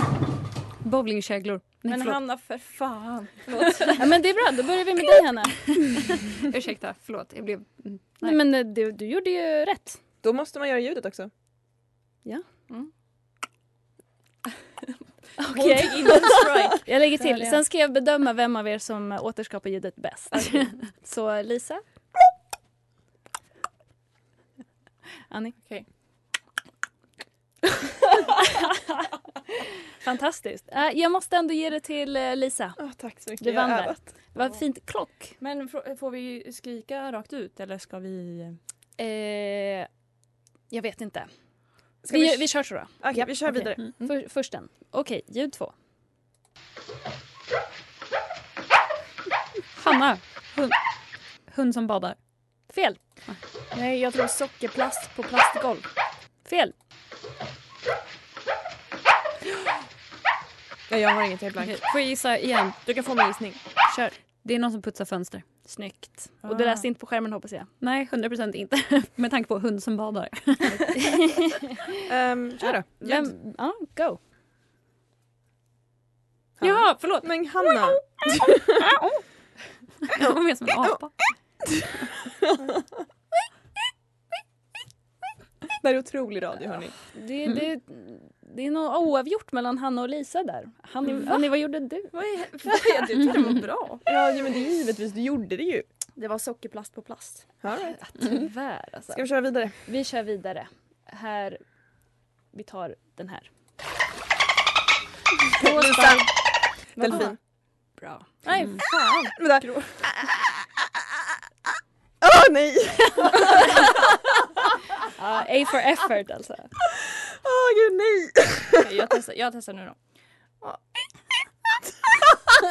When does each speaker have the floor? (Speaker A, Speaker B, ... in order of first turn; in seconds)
Speaker A: 0.8-2.2, 6.5-8.4, 49.8-50.8, 51.5-52.2, 61.6-62.8, 64.4-65.5, 67.8-71.0, 76.6-77.8, 78.8-79.2, 80.1-81.2
Speaker B: 1.9-4.1, 15.4-17.6, 25.6-25.9, 35.4-38.6, 53.7-55.9, 66.4-66.9, 92.1-94.0, 96.2-97.5, 105.7-106.2, 107.0-107.3, 108.4-110.0, 118.8-120.0
Speaker C: 4.0-6.2, 8.2-10.0, 15.4-21.8, 25.3-25.6, 28.2-29.0, 29.5-32.8, 33.4-35.4, 39.0-39.9, 40.7-41.3, 42.1-45.7, 52.7-53.0, 56.4-56.7, 63.8-64.1, 65.7-67.7, 71.0-71.9, 72.7-74.2, 87.1-92.2, 98.0-99.2, 99.9-101.6, 102.5-103.5, 108.0-108.3, 115.2-116.7
Speaker D: 10.2-11.3, 32.8-34.1, 42.0-44.0, 60.9-61.8, 62.8-63.6, 72.1-73.3, 76.6-78.9, 82.4-82.8, 85.8-87.0, 94.1-95.9, 97.6-98.5, 99.1-99.8, 105.6-106.4, 107.0-107.4, 109.4-110.7, 112.2-114.0, 117.0-118.9